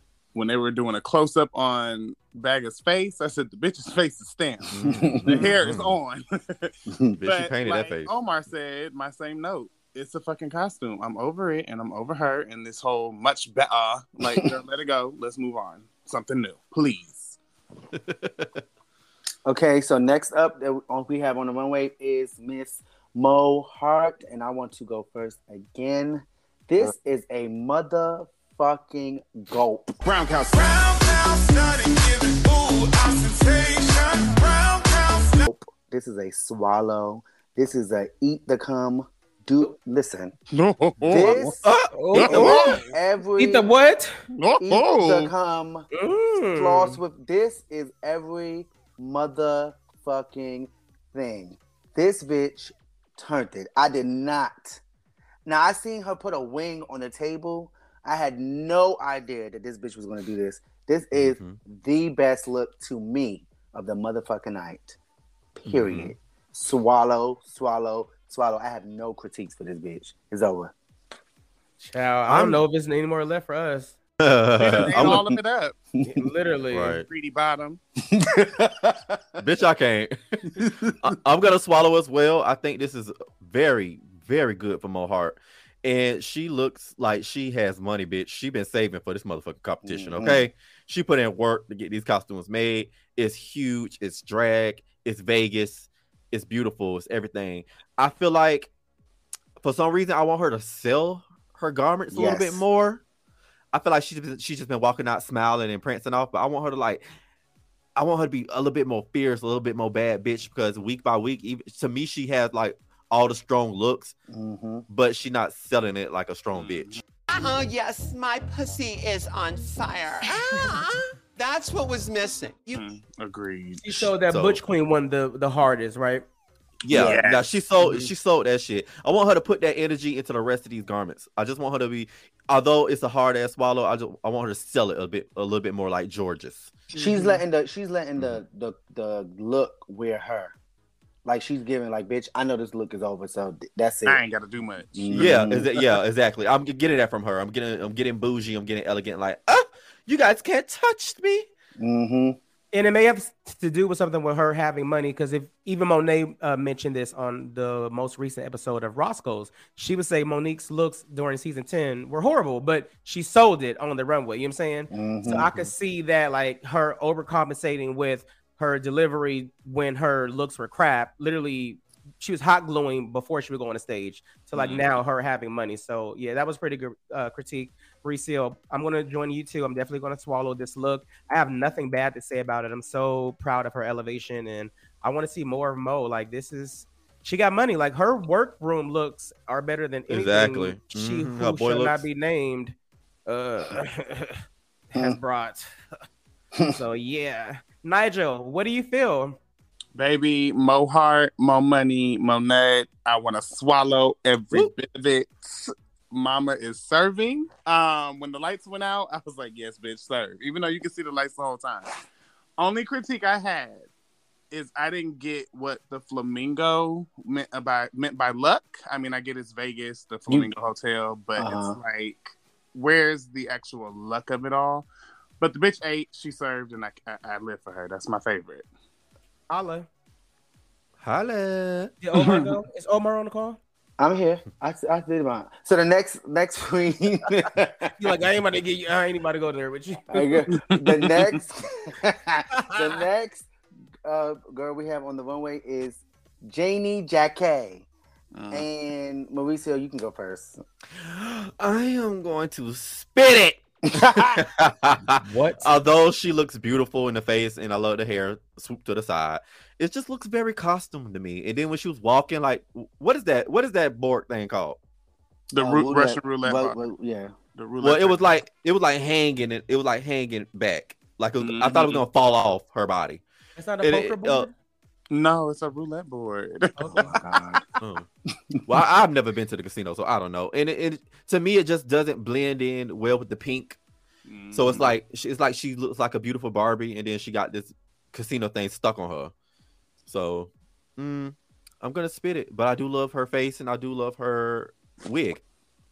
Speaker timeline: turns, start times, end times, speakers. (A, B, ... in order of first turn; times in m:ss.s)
0:00.3-0:04.7 A
0:04.7-0:05.9 B
0:04.8-0:05.5 C
0:05.3-0:06.7 A
0:06.9-0:07.2 C
0:07.2-0:08.1 B
0:07.2-0:17.4 A
0:14.2-0:14.4 C
0:17.9-0:18.6 B
0:19.4-0:30.0 C
0:30.1-0:35.4 A
0:35.4-0:40.3 C
0:40.5-0:41.5 A
0:41.0-0:43.7 C
0:41.6-0:42.8 B
0:41.9-0:42.7 D
0:42.1-0:42.9 A
0:43.4-0:44.2 D
0:44.3-0:45.3 A
0:44.6-0:45.9 C
0:45.9-0:47.0 D
0:46.5-0:54.8 C
0:55.4-1:05.0 C
1:01.1-1:01.6 B
1:05.6-1:10.7 C
1:05.7-1:06.1 B
1:11.8-1:14.0 D
1:12.3-1:12.6 B
1:14.2-1:15.3 B
1:14.6-1:15.8 A
1:16.0-1:17.0 D
1:16.7-1:17.1 B
1:17.1-1:17.8 A
1:18.1-1:19.2 C
1:19.4-1:38.7 B
1:29.8-1:30.4 C
1:39.6-1:43.0 B
1:42.1-1:42.6 C
1:43.7-1:47.0 B
1:48.0-1:54.1 B
1:54.3-1:54.8 C
1:54.9-1:57.0 B
1:56.5-1:57.0 A
1:57.3-2:02.8 E
2:02.7-2:04.0 A
2:03.8-2:06.2 D
2:04.3-2:04.6 B
2:06.8-2:16.9 B
2:06.9-2:08.1 A
2:16.9-2:20.5 C
2:21.2-2:24.2 C
2:24.0-2:25.4 A
2:24.9-2:25.7 C
2:25.1-2:31.5 B
2:31.8-2:32.4 C
2:32.7-3:12.7 D
2:44.9-2:45.5 C
3:10.1-3:12.0 B
3:13.3-3:15.7 D
3:16.6-3:19.4 D
3:20.0-3:31.9 A
3:32.6-3:33.9 A
3:34.5-3:44.9 A
3:41.4-3:41.8 C
3:45.4-3:48.6 A
3:49.5-3:49.9 D
3:51.0-3:51.9 B
3:52.0-3:53.6 D
3:54.0-3:57.9 C
3:58.0-4:00.4 D
4:00.1-4:03.5 C
4:00.8-4:01.4 A
4:04.0-4:07.8 C
4:08.3-4:08.6 A
4:08.5-4:10.6 C
4:11.0-4:24.8 B
4:13.9-4:14.4 C
4:15.2-4:15.7 D
4:25.5-4:26.8 A
4:25.6-4:27.3 C
4:27.6-4:28.3 A
4:27.8-4:33.2 B
4:31.4-4:32.0 A
4:33.6-4:34.5 D
4:33.8-4:34.5 B
4:35.1-4:37.2 A
4:36.8-4:37.1 D
4:37.0-4:37.6 C
4:37.8-4:38.1 B
4:38.6-4:43.8 B
4:44.2-4:45.0 A
4:44.5-4:49.3 B
4:50.0-4:55.4 B